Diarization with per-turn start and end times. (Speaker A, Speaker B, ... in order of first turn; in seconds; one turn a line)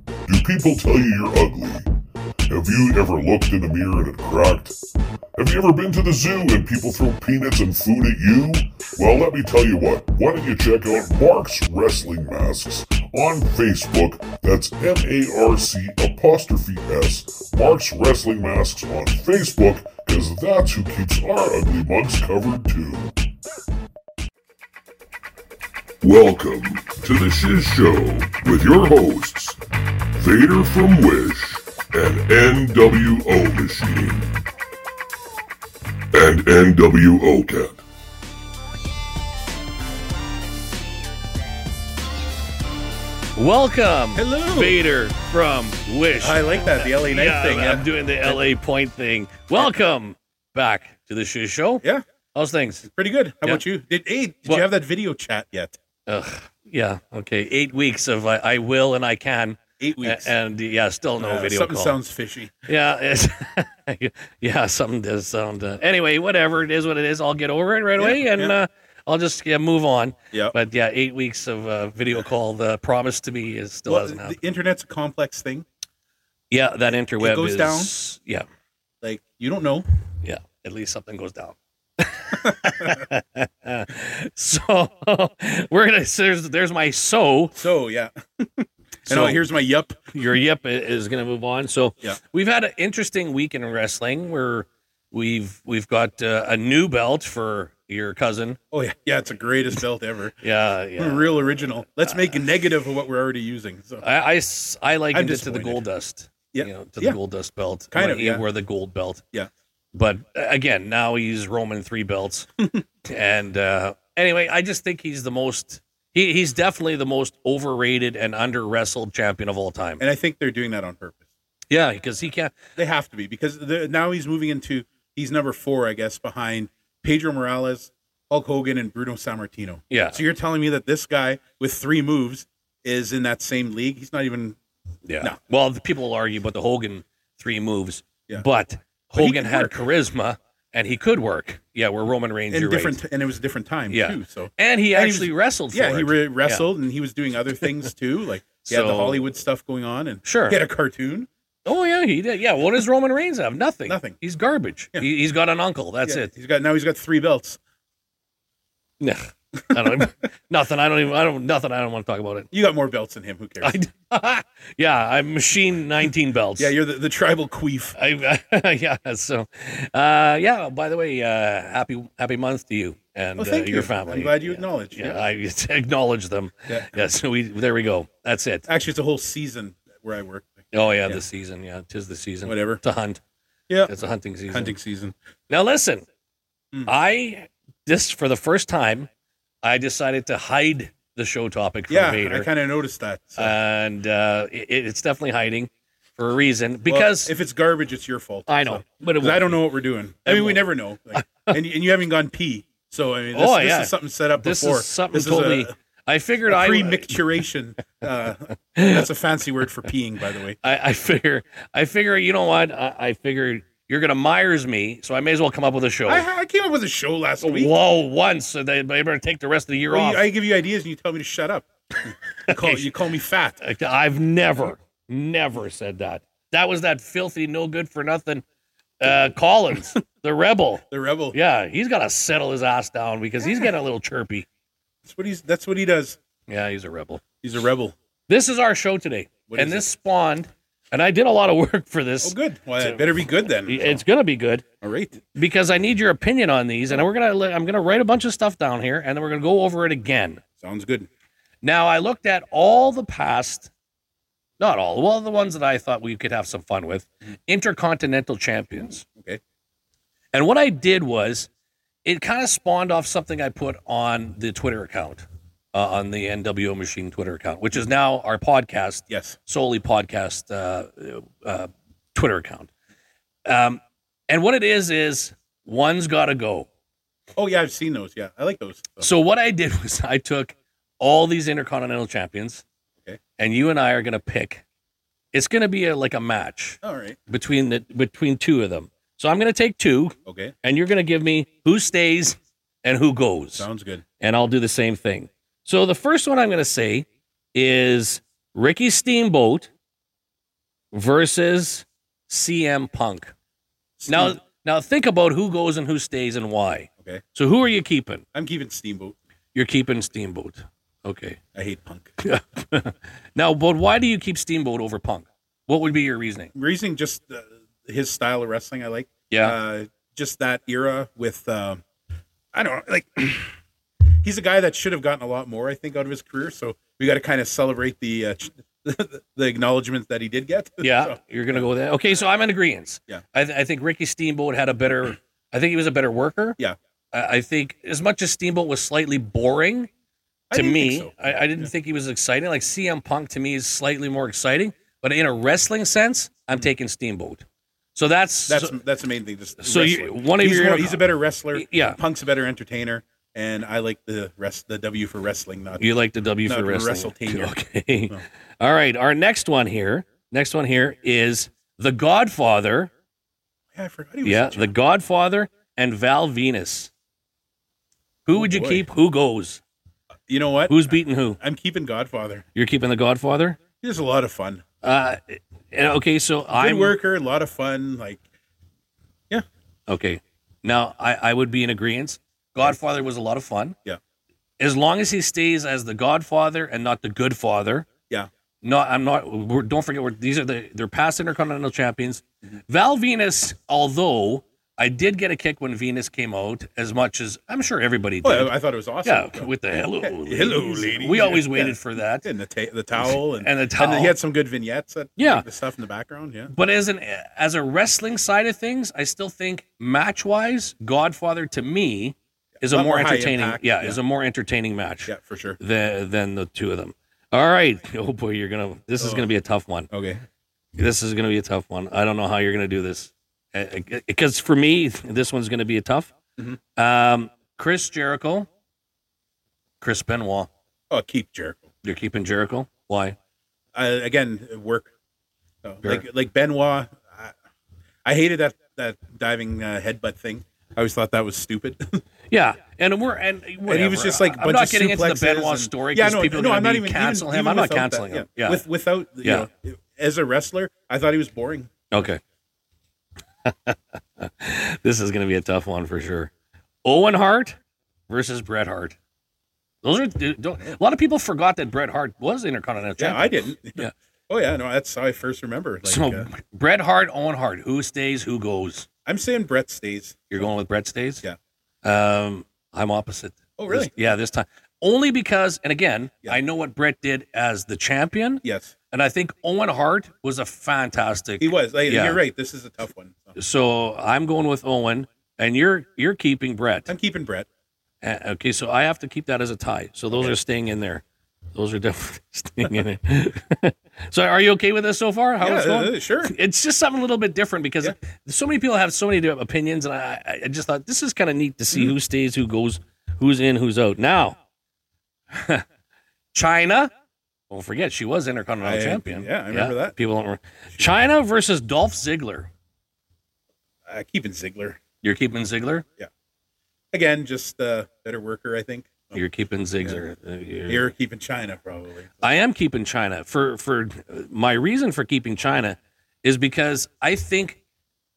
Speaker A: 0.2-1.9
Speaker A: 2.5-4.7
Speaker A: 5.3-23.1
Speaker A: 26.0-29.6
Speaker A: 30.1-34.3
Speaker A: 36.1-37.8
Speaker B: 43.3-52.9
Speaker C: 44.1-44.8
Speaker C: 46.2-48.4
Speaker C: 52.8-55.8
Speaker B: 56.1-62.0
Speaker C: 59.8-60.3
Speaker C: 61.2-62.5
Speaker B: 62.6-74.4
Speaker C: 68.0-68.5
Speaker C: 73.9-75.7
Speaker B: 76.5-78.5
Speaker C: 77.2-77.9
Speaker C: 79.0-79.8
Speaker B: 80.2-87.6
Speaker C: 82.5-83.0
Speaker C: 87.5-90.1
Speaker B: 89.0-89.4
Speaker B: 90.1-98.6
Speaker C: 98.7-100.4
Speaker B: 100.4-102.4
Speaker C: 101.0-104.0
Speaker B: 104.0-109.2
Speaker C: 105.1-105.8
Speaker C: 106.5-107.2
Speaker C: 107.9-108.4
Speaker B: 109.9-112.5
Speaker B: 113.0-120.0
Speaker C: 120.0-121.2
Speaker B: 121.7-122.5
Speaker C: 122.8-134.6
Speaker B: 129.9-130.2
Speaker B: 135.1-143.0
Speaker C: 139.2-139.8
Speaker C: 142.5-151.3
Speaker B: 143.9-146.7
Speaker B: 148.6-149.3
Speaker B: 150.2-150.6
Speaker B: 151.6-156.3
Speaker C: 153.9-154.2
Speaker C: 156.0-157.6
Speaker B: 159.0-162.5
Speaker C: 159.7-160.1
Speaker C: 162.5-163.8
Speaker B: 163.6-166.7
Speaker C: 166.6-167.9
Speaker B: 167.9-178.7
Speaker C: 173.4-175.2
Speaker C: 178.7-181.2
Speaker B: 180.7-183.2
Speaker C: 182.4-182.8
Speaker B: 183.8-184.7
Speaker C: 184.5-185.1
Speaker B: 185.5-186.1
Speaker B: 186.8-189.1
Speaker B: 189.6-192.5
Speaker C: 191.9-193.6
Speaker B: 193.4-197.3
Speaker C: 196.8-205.7
Speaker B: 198.5-199.6
Speaker B: 200.2-200.6
Speaker B: 201.2-201.5
Speaker B: 203.3-207.2
Speaker C: 206.5-210.6
Speaker B: 208.7-209.1
Speaker B: 210.6-216.2
Speaker C: 216.1-217.7
Speaker B: 217.4-220.2
Speaker C: 219.9-221.7
Speaker B: 222.4-222.8
Speaker C: 222.4-223.6
Speaker B: 223.6-228.4
Speaker B: 229.0-234.5
Speaker C: 230.9-231.3
Speaker C: 235.0-236.2
Speaker B: 236.5-237.2
Speaker C: 237.4-237.9
Speaker B: 238.3-244.6
Speaker C: 239.5-239.9
Speaker C: 242.2-244.0
Speaker C: 244.8-245.2
Speaker B: 245.3-250.4
Speaker C: 250.6-251.1
Speaker B: 251.6-253.7
Speaker B: 254.6-259.0
Speaker B: 260.3-261.5
Speaker B: 262.0-272.7
Speaker C: 269.1-269.4
Speaker B: 273.4-276.7
Speaker C: 277.4-279.1
Speaker B: 279.0-282.6
Speaker B: 283.4-284.6
Speaker B: 285.3-293.7
Speaker C: 286.8-287.2
Speaker C: 290.2-290.5
Speaker C: 293.6-294.0
Speaker B: 294.2-299.7
Speaker B: 300.9-303.3
Speaker C: 304.0-304.4
Speaker B: 304.1-308.2
Speaker C: 308.3-309.1
Speaker B: 309.5-311.4
Speaker C: 311.5-312.1
Speaker B: 312.2-316.5
Speaker C: 316.5-321.8
Speaker B: 319.3-319.6
Speaker C: 322.5-323.5
Speaker C: 324.2-331.6
Speaker B: 330.8-336.6
Speaker B: 337.1-339.9
Speaker C: 340.5-341.7
Speaker B: 340.5-347.4
Speaker B: 347.9-348.8
Speaker C: 348.5-355.8
Speaker B: 349.6-352.0
Speaker B: 355.8-362.9
Speaker C: 356.4-357.5
Speaker C: 363.7-364.7
Speaker B: 364.2-366.9
Speaker B: 368.2-369.6
Speaker C: 368.3-368.8
Speaker C: 370.3-372.4
Speaker B: 370.7-371.4
Speaker B: 372.5-373.6
Speaker C: 373.8-374.6
Speaker B: 374.8-376.9
Speaker C: 376.5-378.2
Speaker B: 379.9-383.8
Speaker B: 384.6-387.9
Speaker B: 388.6-402.3
Speaker C: 398.2-406.5
Speaker B: 402.9-404.1
Speaker B: 405.2-405.4
Speaker B: 406.5-419.9
Speaker C: 412.6-414.0
Speaker C: 415.1-415.6
Speaker C: 419.0-419.2
Speaker C: 419.9-420.2
Speaker B: 420.7-426.1
Speaker B: 426.8-428.5
Speaker B: 429.8-430.5
Speaker C: 430.9-431.7
Speaker B: 431.8-433.1
Speaker C: 433.7-434.9
Speaker C: 435.6-437.3
Speaker C: 438.0-442.0
Speaker B: 442.3-448.6
Speaker C: 443.6-452.1
Speaker B: 451.9-452.2
Speaker B: 453.4-456.3
Speaker B: 456.8-459.0
Speaker B: 459.8-463.9
Speaker C: 463.0-466.3
Speaker B: 465.8-468.9
Speaker C: 469.1-470.5
Speaker B: 470.3-471.2
Speaker B: 471.8-482.2
Speaker C: 473.6-473.9
Speaker C: 478.4-478.7
Speaker C: 481.4-483.4
Speaker B: 483.4-486.9
Speaker C: 486.9-487.5
Speaker B: 488.0-491.0
Speaker B: 491.5-504.4
Speaker C: 495.4-496.3
Speaker B: 505.3-505.6
Speaker B: 506.3-506.9
Speaker B: 507.5-512.5
Speaker C: 508.6-509.9
Speaker C: 513.9-514.8
Speaker B: 515.0-515.8
Speaker C: 516.9-519.2
Speaker B: 519.1-520.9
Speaker C: 520.7-522.3
Speaker B: 522.2-527.6